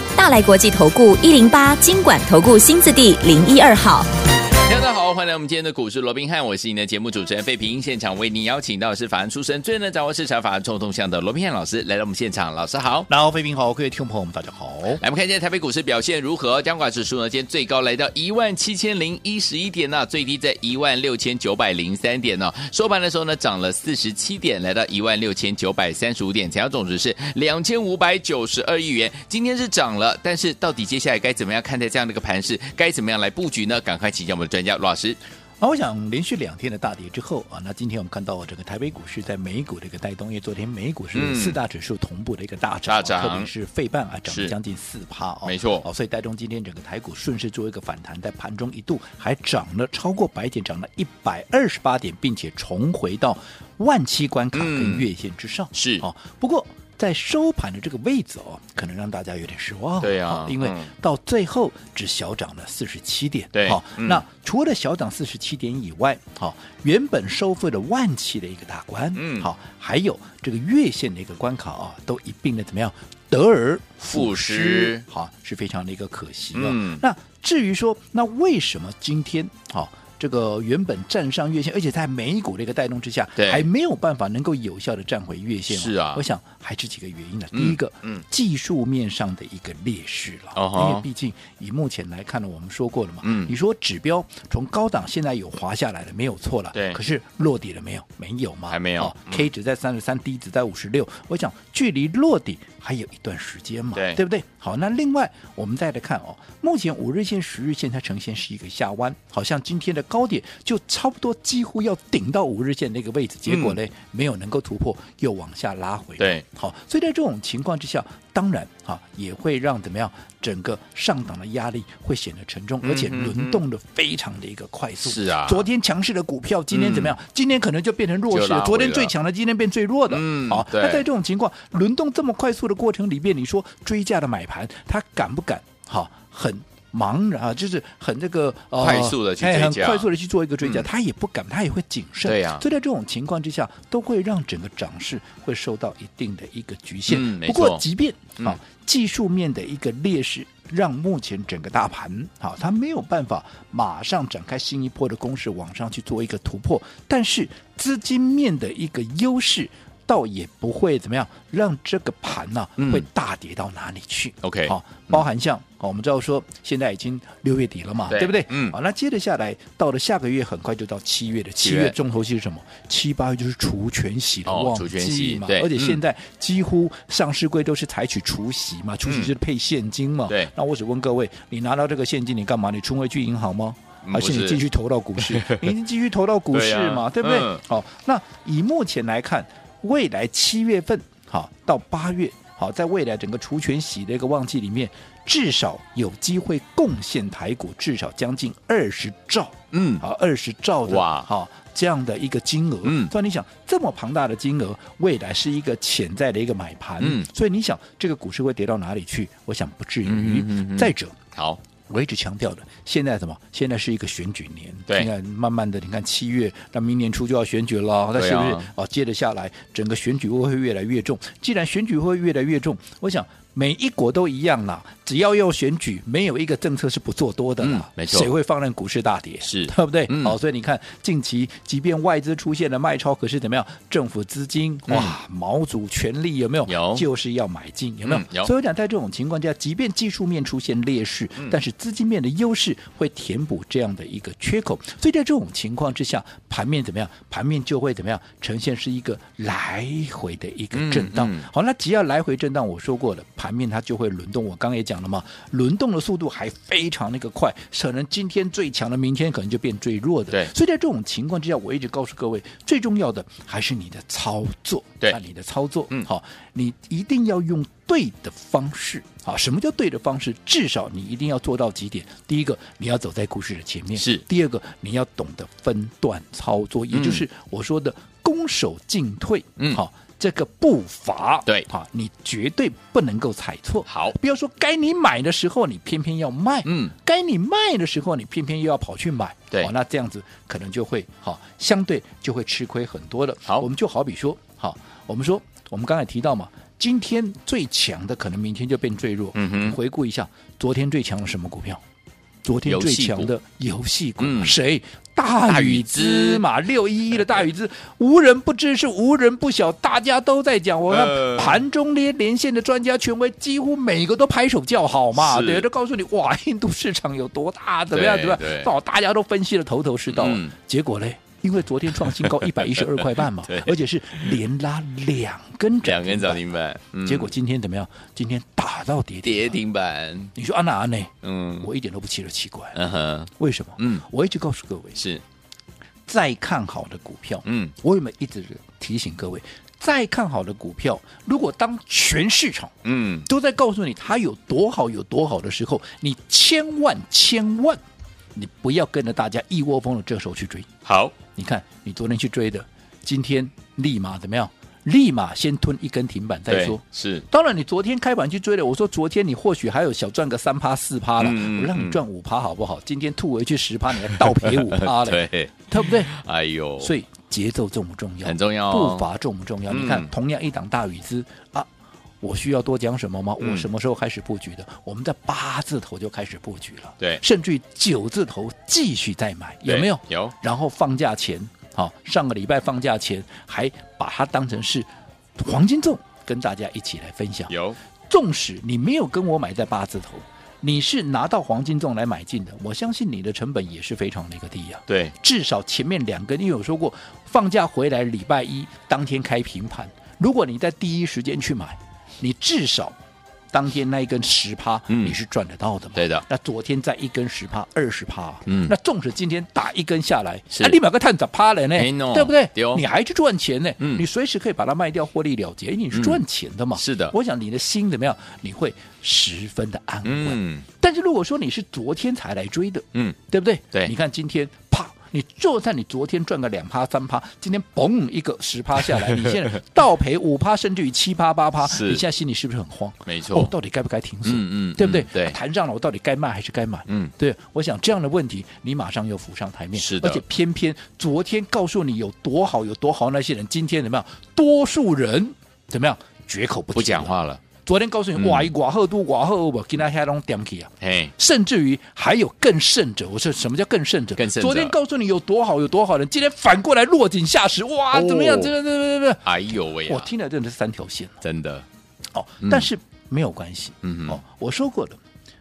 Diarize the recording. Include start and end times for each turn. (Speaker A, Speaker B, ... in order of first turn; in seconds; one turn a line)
Speaker A: 0.2-4.1
Speaker B: 4.6-13.1
Speaker C: 13.1-15.0
Speaker B: 15.0-35.2
Speaker C: 35.6-211.2
Speaker B: 41.1-41.6
Speaker B: 42.9-43.5
Speaker B: 44.3-44.5
Speaker B: 45.4-45.9
Speaker B: 54.5-55.1
Speaker B: 55.7-56.0
Speaker B: 60.0-60.9
Speaker B: 63.5-64.2
Speaker B: 69.1-69.5
Speaker B: 74.1-75.0
Speaker B: 76.5-77.0
Speaker B: 83.4-83.7
Speaker B: 85.7-86.2
Speaker B: 87.5-88.2
Speaker B: 90.5-91.0
Speaker B: 93.2-93.5
Speaker B: 96.7-97.0
Speaker B: 98.7-99.5
Speaker B: 104.0-104.2
Speaker B: 113.5-113.8
Speaker B: 116.2-116.4
Speaker B: 122.8-123.6
Speaker B: 125.0-125.7
Speaker B: 126.7-127.2
Speaker B: 128.3-129.1
Speaker B: 130.1-131.1
Speaker B: 138.8-140.9
Speaker B: 142.2-142.6
Speaker B: 147.1-147.8
Speaker B: 162.8-163.1
Speaker B: 164.4-165.2
Speaker B: 168.1-168.8
Speaker B: 171.6-171.9
Speaker B: 174.5-176.0
Speaker B: 179.1-179.3
Speaker B: 184.1-184.6
Speaker B: 185.2-185.7
Speaker B: 186.5-187.6
Speaker B: 199.7-200.1
Speaker B: 200.8-201.3
Speaker B: 202.8-203.1
Speaker B: 207.0-207.3
Speaker B: 210.0-211.6
Speaker C: 211.9-301.8
Speaker B: 218.2-218.7
Speaker B: 227.6-228.3
Speaker B: 229.4-230.4
Speaker B: 234.9-235.2
Speaker B: 236.7-237.0
Speaker B: 238.0-238.5
Speaker B: 250.7-251.5
Speaker B: 273.9-274.2
Speaker B: 276.9-277.2
Speaker B: 283.9-284.1
Speaker B: 286.6-286.9
Speaker B: 299.3-299.8
Speaker C: 302.4-326.4
Speaker B: 302.6-303.3
Speaker B: 304.2-304.6
Speaker B: 305.5-306.4
Speaker B: 310.9-311.6
Speaker B: 315.1-315.7
Speaker B: 317.9-318.7
Speaker B: 320.1-320.5
Speaker B: 322.0-324.4
Speaker B: 325.8-327.3
Speaker C: 327.0-329.5
Speaker B: 329.2-330.3
Speaker C: 330.3-332.8
Speaker B: 331.2-331.7
Speaker B: 332.7-334.0
Speaker C: 333.4-335.0
Speaker B: 334.9-335.2
Speaker C: 336.1-342.7
Speaker B: 337.4-337.7
Speaker B: 342.8-343.3
Speaker C: 343.2-347.8
Speaker C: 348.3-350.7
Speaker B: 350.8-351.1
Speaker C: 351.3-366.1
Speaker B: 356.5-357.2
Speaker B: 361.2-362.0
Speaker B: 364.1-366.9
Speaker C: 366.8-371.7
Speaker B: 368.2-369.1
Speaker B: 369.7-370.1
Speaker C: 372.2-387.5
Speaker B: 373.4-373.7
Speaker B: 379.6-380.3
Speaker B: 387.5-387.8
Speaker C: 388.1-402.9
Speaker B: 394.9-395.1
Speaker C: 403.5-459.3
Speaker B: 404.9-405.2
Speaker B: 405.9-406.2
Speaker B: 408.4-408.7
Speaker B: 410.5-410.8
Speaker B: 411.8-412.8
Speaker B: 413.8-414.0
Speaker B: 415.9-416.2
Speaker B: 416.8-417.1
Speaker B: 420.0-420.6
Speaker B: 428.8-429.5
Speaker B: 431.6-432.0
Speaker B: 433.1-433.5
Speaker B: 434.2-435.4
Speaker B: 436.9-437.1
Speaker B: 439.8-440.2
Speaker B: 446.7-447.4
Speaker B: 448.1-448.5
Speaker B: 450.8-451.1
Speaker B: 454.2-454.8
Speaker B: 457.9-458.5
Speaker B: 459.2-460.1
Speaker C: 459.8-461.2
Speaker B: 461.2-461.6
Speaker C: 462.1-465.0
Speaker B: 462.4-462.7
Speaker B: 463.8-464.2